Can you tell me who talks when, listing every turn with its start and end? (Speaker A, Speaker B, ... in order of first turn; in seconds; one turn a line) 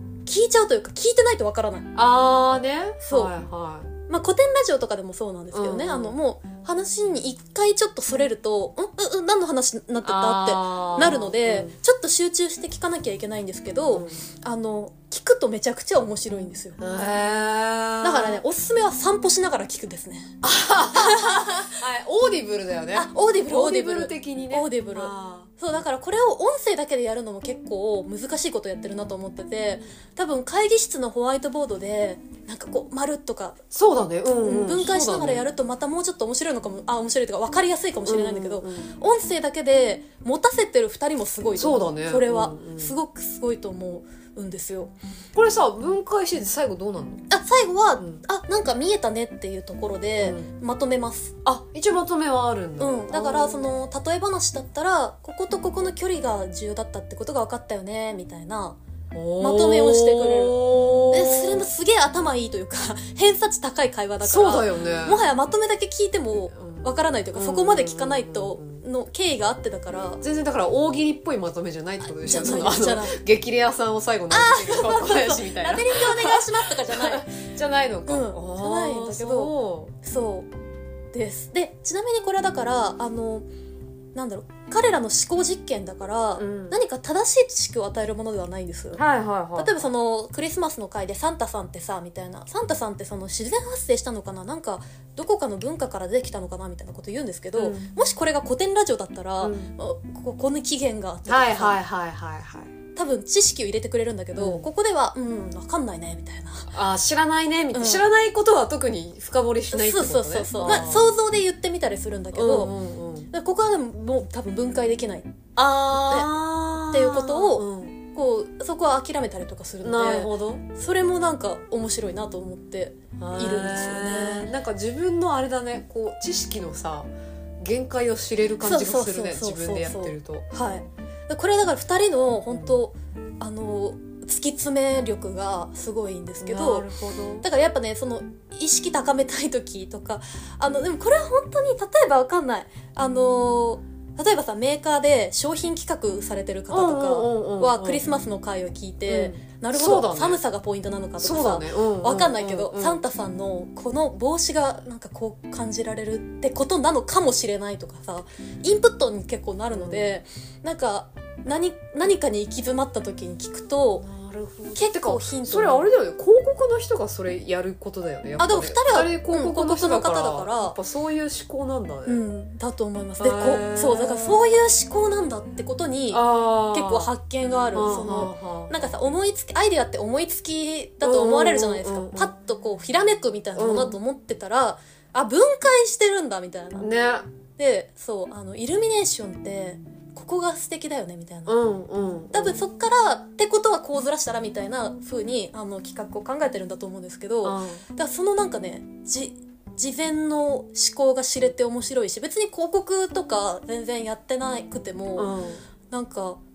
Speaker A: 0.3-1.9
Speaker B: 1.9-3.9
Speaker A: 3.0-3.3
Speaker A: 4.1-16.8
Speaker B: 5.5-6.2
Speaker B: 10.0-11.8
Speaker B: 13.9-14.2
Speaker B: 16.8-18.4
Speaker A: 18.0-20.4
Speaker B: 20.4-25.5
Speaker A: 20.9-21.7
Speaker A: 22.9-33.6
Speaker B: 33.7-35.5
Speaker A: 34.4-44.9
Speaker B: 38.1-38.9
Speaker B: 41.6-43.0
Speaker B: 45.4-47.3
Speaker A: 47.3-51.4
Speaker B: 50.2-50.5
Speaker B: 51.5-53.7
Speaker A: 52.8-58.8
Speaker B: 59.1-61.7
Speaker A: 59.4-70.2
Speaker B: 64.2-65.2
Speaker B: 66.5-68.8
Speaker B: 70.2-80.0
Speaker A: 72.0-73.2
Speaker A: 74.3-77.3
Speaker A: 78.1-80.5
Speaker A: 81.1-83.5
Speaker A: 84.2-89.0
Speaker B: 86.4-86.8
Speaker B: 88.9-89.8
Speaker A: 89.6-101.8
Speaker B: 97.5-97.9
Speaker B: 99.4-99.7
Speaker B: 101.3-102.7
Speaker A: 103.0-106.7
Speaker B: 104.4-104.7
Speaker B: 106.7-111.1
Speaker A: 107.7-108.0
Speaker A: 109.7-112.8
Speaker B: 112.3-113.3
Speaker A: 113.3-115.3
Speaker B: 115.6-118.0
Speaker A: 115.9-116.3
Speaker A: 116.9-124.5
Speaker B: 119.8-120.6
Speaker B: 123.2-130.5
Speaker A: 128.6-136.9
Speaker B: 132.5-132.8
Speaker B: 136.4-137.5
Speaker A: 137.4-164.1
Speaker B: 146.7-148.0
Speaker B: 149.1-150.4
Speaker B: 151.2-153.0
Speaker B: 159.7-160.1
Speaker B: 164.0-172.2
Speaker A: 164.8-165.9
Speaker A: 168.4-170.8
Speaker A: 172.1-186.9
Speaker B: 173.2-174.4
Speaker B: 176.1-177.1
Speaker B: 177.7-178.9
Speaker B: 181.0-182.3
Speaker B: 183.6-184.0
Speaker B: 186.8-187.3
Speaker A: 187.6-191.6
Speaker B: 191.5-192.6
Speaker A: 192.3-205.3
Speaker B: 197.4-197.8
Speaker B: 205.2-205.6
Speaker A: 205.9-206.4